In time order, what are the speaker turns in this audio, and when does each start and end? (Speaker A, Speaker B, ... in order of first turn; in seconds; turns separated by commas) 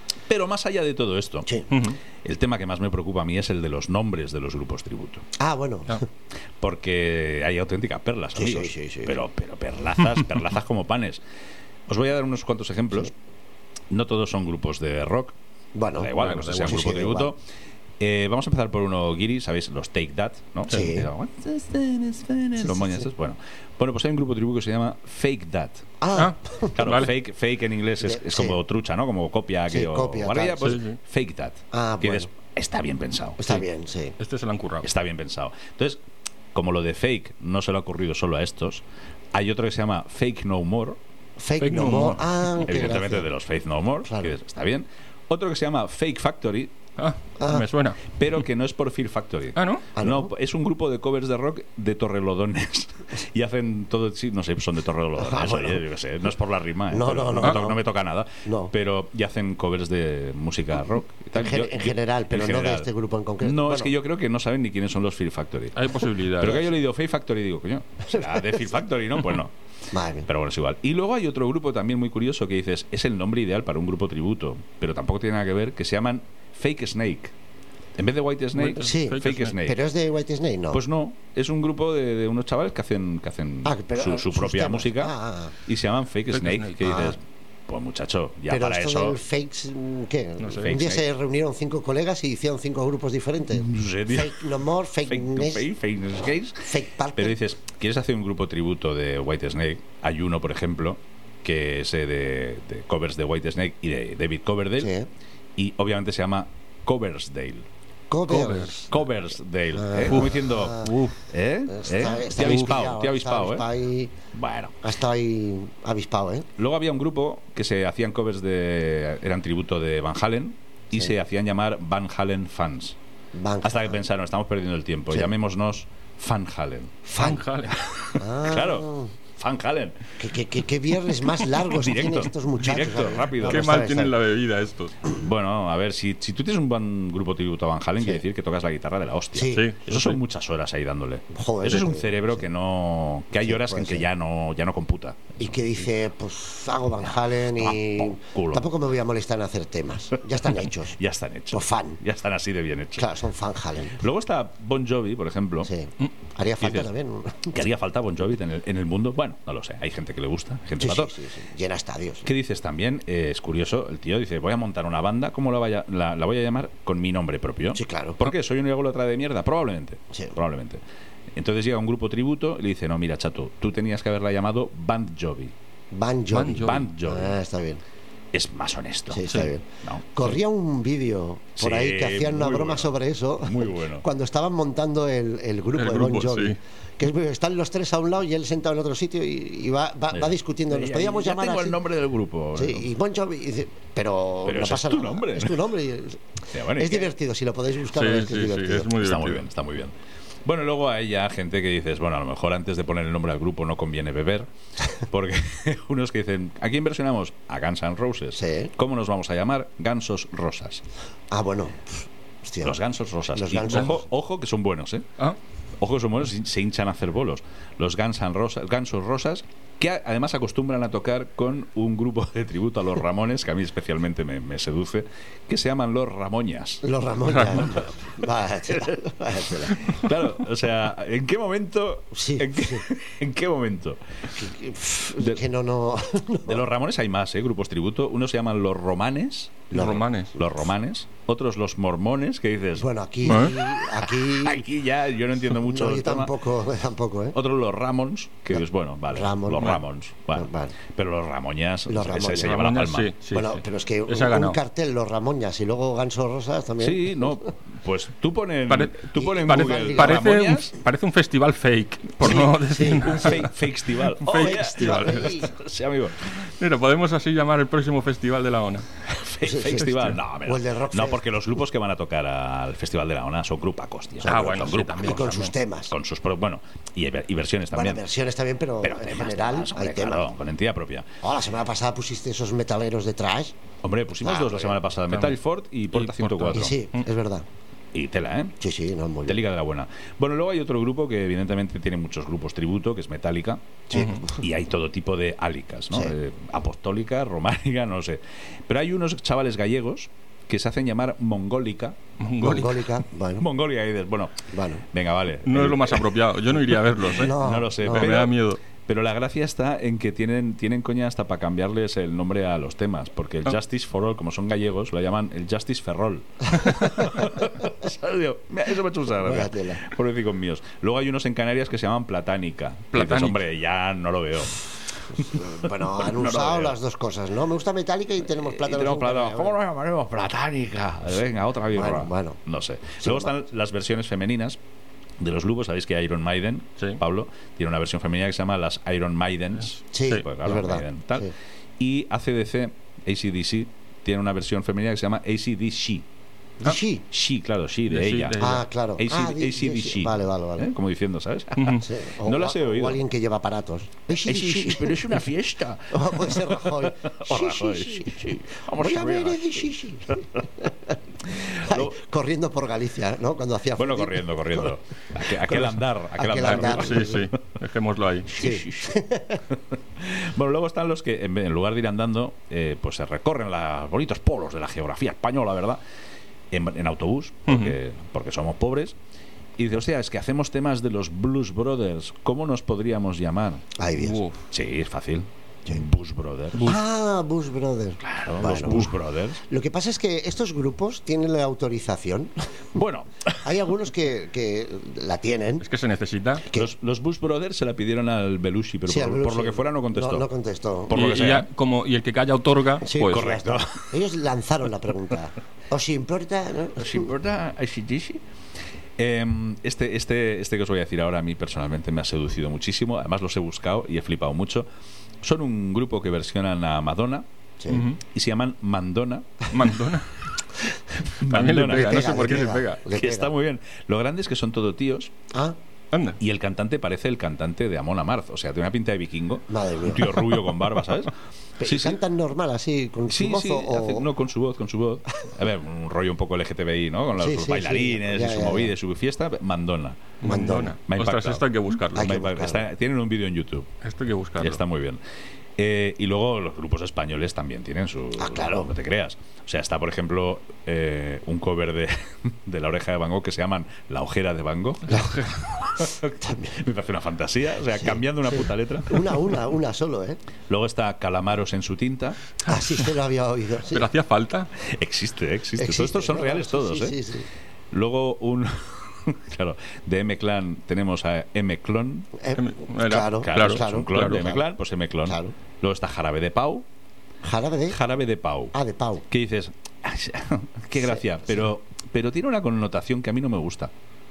Speaker A: 0.3-5.2, Speaker B: 1.7-2.0, Speaker C: 5.4-6.0, Speaker A: 6.6-11.2, Speaker C: 8.3-9.2, Speaker A: 11.9-13.1, Speaker A: 13.9-15.3, Speaker C: 15.7-17.3, Speaker A: 15.9-17.4, Speaker B: 16.2-16.9, Speaker A: 18.0-25.9, Speaker C: 20.7-21.1, Speaker C: 22.6-23.1, Speaker C: 26.0-26.8, Speaker B: 26.1-27.1, Speaker A: 26.8-33.6, Speaker C: 28.0-28.6, Speaker C: 29.7-30.8, Speaker B: 30.6-31.0, Speaker C: 31.7-32.3, Speaker C: 33.4-34.1, Speaker B: 34.2-34.9, Speaker A: 34.8-36.0, Speaker A: 36.5-41.0, Speaker C: 41.4-43.3, Speaker B: 41.6-42.2, Speaker A: 42.5-46.7, Speaker C: 44.0-44.3, Speaker B: 47.0-48.2, Speaker C: 47.4-47.7, Speaker A: 48.2-62.9, Speaker B: 49.5-49.8, Speaker C: 50.0-50.3, Speaker C: 55.2-55.8, Speaker C: 56.9-57.8, Speaker C: 58.4-58.7, Speaker C: 61.3-63.9, Speaker A: 63.4-69.5, Speaker B: 65.8-66.6, Speaker C: 68.1-68.7, Speaker C: 69.9-70.3, Speaker A: 70.2-77.3, Speaker A: 78.0-79.8, Speaker B: 78.5-79.6, Speaker C: 78.8-80.8, Speaker A: 80.7-89.2, Speaker C: 83.6-85.5, Speaker B: 86.3-86.8, Speaker C: 86.8-87.2, Speaker C: 88.5-95.7, Speaker B: 90.4-90.7, Speaker A: 90.6-91.0, Speaker A: 93.5-94.5, Speaker A: 95.0-104.9, Speaker C: 96.6-97.3, Speaker C: 104.8-105.1, Speaker A: 105.6-107.7, Speaker C: 108.1-108.9, Speaker B: 108.3-108.8, Speaker A: 108.9-113.7, Speaker C: 109.7-110.9, Speaker B: 110.1-111.2, Speaker C: 111.7-114.1, Speaker A: 114.3-114.8, Speaker C: 114.8-116.5, Speaker A: 116.6-123.0, Speaker C: 123.3-124.0, Speaker A: 123.6-127.0, Speaker C: 127.0-127.4, Speaker B: 127.2-127.8, Speaker A: 127.7-130.2, Speaker C: 128.2-129.1, Speaker C: 130.2-134.1, Speaker A: 131.2-133.8, Speaker B: 133.4-134.9, Speaker A: 135.1-145.8, Speaker C: 139.3-139.7, Speaker B: 139.5-140.1, Speaker C: 141.3-142.4, Speaker C: 143.3-144.1, Speaker C: 145.4-151.0, Speaker A: 147.5-148.7, Speaker A: 150.4-153.1, Speaker C: 151.5-152.0, Speaker C: 152.9-154.0, Speaker A: 154.0-155.7, Speaker C: 155.6-157.5, Speaker A: 157.5-161.2, Speaker C: 160.8-162.3, Speaker A: 162.2-170.8, Speaker C: 167.7-168.2, Speaker A: 171.3-175.5, Speaker C: 175.9-177.8, Speaker B: 176.3-176.8, Speaker A: 176.4-177.4, Speaker A: 178.3-180.4, Speaker C: 179.1-191.8, Speaker A: 181.6-184.1, Speaker B: 185.7-186.6, Speaker A: 190.1-192.9, Speaker C: 192.5-198.9, Speaker A: 194.4-195.7, Speaker A: 196.5-197.1, Speaker B: 197.9-199.4, Speaker A: 198.9-210.8, Speaker C: 208.3-208.7, Speaker C: 211.3-212.8, Speaker A: 212.6-215.1, Speaker C: 213.3-214.0, Speaker A: 215.8-227.7, Speaker C: 226.8-230.1, Speaker A: 228.7-229.0, Speaker A: 229.6-234.0, Speaker C: 232.1-232.8, Speaker C: 234.3-236.6, Speaker A: 236.5-246.3, Speaker C: 239.7-240.0, Speaker B: 239.7-240.3, Speaker C: 242.8-244.6, Speaker B: 243.2-243.5, Speaker C: 245.5-247.4, Speaker A: 247.3-253.1, Speaker C: 249.1-250.8, Speaker C: 251.9-252.6, Speaker B: 252.4-254.6, Speaker C: 253.3-257.5, Speaker A: 256.8-260.7, Speaker B: 258.7-263.5, Speaker C: 259.1-260.1, Speaker C: 262.2-263.4, Speaker A: 263.0-266.3, Speaker B: 264.2-265.3, Speaker C: 264.3-265.5, Speaker B: 266.4-268.9, Speaker A: 269.0-278.1, Speaker C: 269.4-271.5, Speaker C: 274.2-275.9, Speaker B: 274.2-275.5, Speaker C: 277.7-280.3, Speaker A: 278.8-281.1, Speaker C: 281.2-283.6, Speaker A: 283.8-286.8, Speaker C: 284.2-284.8, Speaker B: 285.1-285.4, Speaker B: 285.9-287.1, Speaker C: 286.5-287.4, Speaker A: 287.9-288.6, Speaker C: 288.6-289.4, Speaker A: 289.2-293.6, Speaker C: 293.9-294.4, Speaker B: 293.9-294.2, Speaker A: 294.3-302.0, Speaker B: 302.2-302.9, Speaker C: 302.4-303.4, Speaker A: 303.4-304.3, Speaker C: 304.5-304.8, Speaker A: 304.9-306.1, Speaker B: 305.4-308.6, Speaker C: 307.0-308.3, Speaker A: 307.2-326.8, Speaker C: 316.6-317.2, Speaker C: 319.2-319.9, Speaker B: 322.9-323.4, Speaker C: 325.2-329.6, Speaker A: 328.3-334.6, Speaker C: 331.7-332.4, Speaker C: 333.0-333.3, Speaker A: 335.2-346.1, Speaker B: 339.7-340.2, Speaker C: 339.9-341.3, Speaker C: 346.6-347.0, Speaker A: 347.1-348.4, Speaker B: 347.9-348.6, Speaker C: 348.4-350.7, Speaker A: 349.0-353.0, Speaker B: 351.6-351.9, Speaker C: 351.7-355.2, Speaker A: 354.1-360.4, Speaker C: 355.9-364.8, Speaker A: 361.4-361.9, Speaker A: 363.8-367.4, Speaker C: 365.3-367.3, Speaker B: 366.4-368.3, Speaker A: 368.3-368.9, Speaker C: 368.3-369.4, Speaker A: 369.7-375.8, Speaker A: 376.5-378.9, Speaker B: 377.5-377.8, Speaker A: 379.6-383.6, Speaker C: 383.8-384.2, Speaker B: 384.0-384.4, Speaker A: 384.5-386.8, Speaker C: 386.6-388.9, Speaker A: 388.0-389.4, Speaker C: 389.4-392.8, Speaker A: 392.7-393.6, Speaker C: 393.4-395.6, Speaker B: 395.6-396.4, Speaker A: 396.5-400.3, Speaker C: 398.9-400.9, Speaker A: 400.9-401.5, Speaker B: 400.9-403.3, Speaker C: 402.8-407.1, Speaker A: 403.1-403.9, Speaker A: 406.8-408.2, Speaker A: 409.0-414.7, Speaker A: 415.2-417.3, Speaker C: 417.6-417.9, Speaker B: 417.7-418.0, Speaker A: 417.9-419.5, Speaker B: 419.5-420.1, Speaker A: 421.1-422.4, Speaker B: 421.2-422.8, Speaker C: 421.6-423.3, Speaker A: 422.9-425.1, Speaker C: 425.3-425.6, Speaker B: 425.9-426.2, Speaker A: 426.2-432.0, Speaker C: 429.5-430.4, Speaker C: 431.6-434.1, Speaker A: 433.1-443.7, Speaker C: 437.2-438.7, Speaker C: 440.2-440.8, Speaker B: 440.2-442.1, Speaker C: 441.9-442.7, Speaker B: 443.8-444.6, Speaker A: 444.4-445.0, Speaker A: 445.6-459.4, Speaker C: 448.2-448.7, Speaker C: 454.9-455.2, Speaker C: 456.1-456.6, Speaker C: 457.8-460.2, Speaker A: 460.5-462.2, Speaker C: 462.4-463.9, Speaker B: 463.7-464.5, Speaker A: 464.6-467.0, Speaker C: 465.6-467.3, Speaker A: 467.7-472.1, Speaker C: 472.2-474.4, Speaker B: 472.4-474.2, Speaker A: 473.2-476.7, Speaker C: 475.1-475.3, Speaker C: 477.2-477.8, Speaker A: 477.7-478.5, Speaker C: 478.5-479.1, Speaker A: 479.1-483.7, Speaker C: 480.8-481.4